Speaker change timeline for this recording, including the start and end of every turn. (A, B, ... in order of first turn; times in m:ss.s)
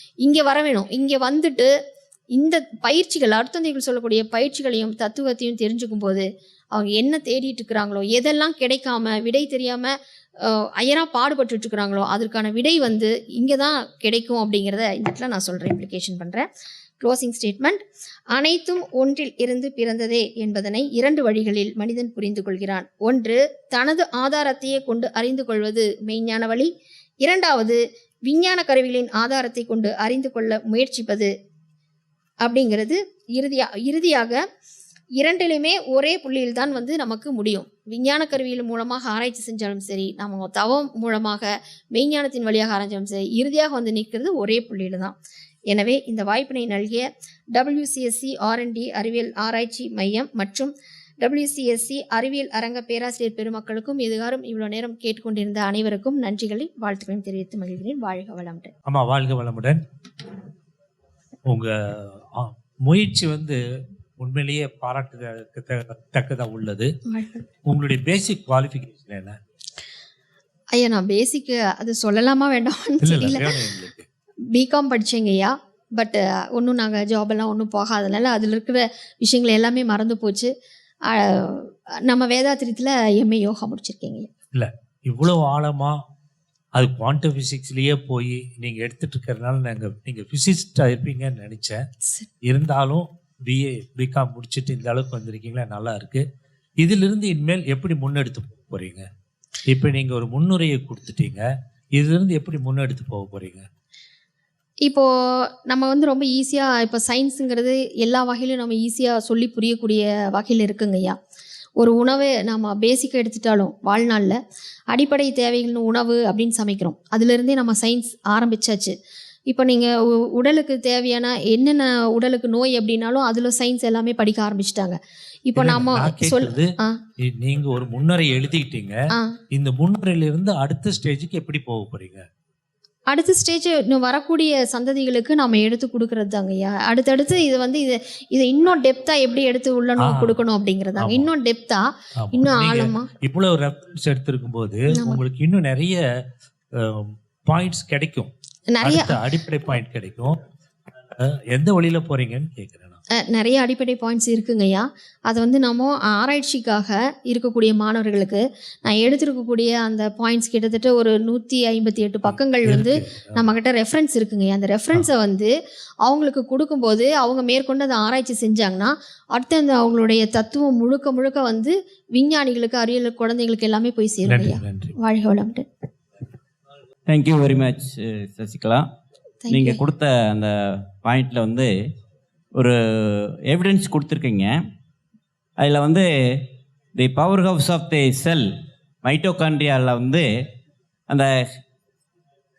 0:00.2-0:01.7 A
0:02.3-0:16.5 A
0:17.0-0:17.8 A
0:18.3-0:26.7 A
0:27.2-0:31.3 A
0:32.4-0:34.4 A
0:35.2-0:45.1 A
0:45.7-0:58.7 A
0:58.8-0:59.8 B
1:01.5-1:03.6 B
1:04.2-1:06.9 B
1:07.1-1:07.4 A
1:07.6-1:09.4 B
1:10.7-1:13.6 A
1:13.0-1:14.1 B
1:14.5-1:20.5 A
1:21.1-1:24.3 A
1:24.5-1:26.0 B
1:26.7-1:31.8 B
1:32.4-1:36.2 B
1:36.8-1:39.0 B
1:39.7-1:43.7 B
1:44.8-1:51.2 A
1:51.8-1:54.4 A
1:54.9-1:58.9 A
1:59.5-2:07.0 A
2:05.6-2:09.0 B
2:09.1-2:09.4 A
2:09.5-2:12.2 B
2:13.1-2:23.1 A
2:20.0-2:20.4 B
2:21.0-2:21.3 B
2:22.2-2:26.0 B
2:24.9-2:25.2 A
2:26.7-2:30.4 B
2:28.7-2:29.2 A
2:31.1-2:33.0 B
2:33.1-2:45.5 A
2:42.3-2:43.4 B
2:46.0-2:55.6 A
2:54.2-2:54.9 B
2:57.1-2:58.8 C
2:59.4-2:59.8 A
2:59.5-3:01.7 C
3:02.6-3:04.6 C
3:05.6-3:08.5 C
3:09.0-3:10.3 C
3:11.1-3:11.4 C